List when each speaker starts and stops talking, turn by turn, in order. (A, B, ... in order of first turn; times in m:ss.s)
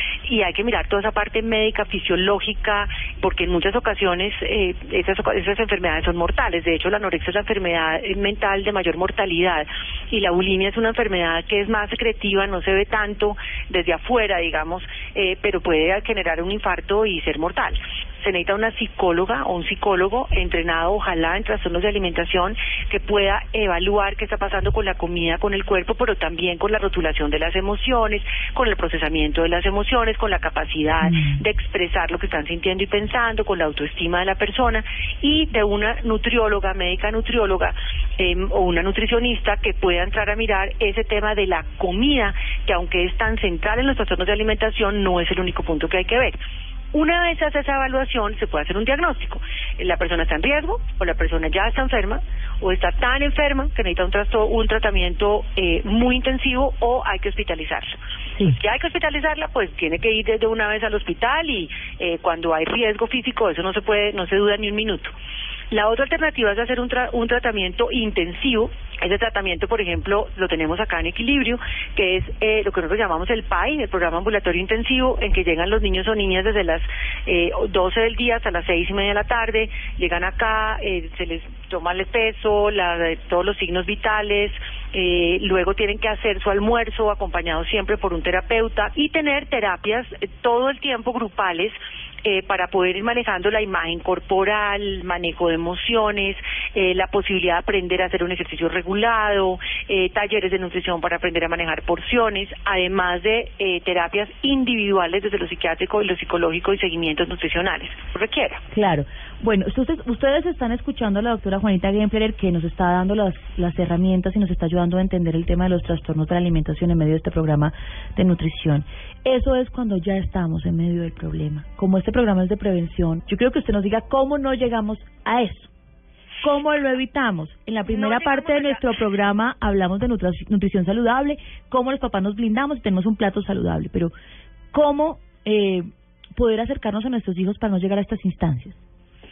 0:00.3-0:46.4 A
0:31.1-0:31.4 B
0:46.9-0:58.0 A
0:58.5-1:05.1 A
1:05.7-1:48.6 A
1:48.7-2:05.7 B
2:06.4-2:14.1 B
2:07.9-2:08.8 A
2:14.7-2:18.8 B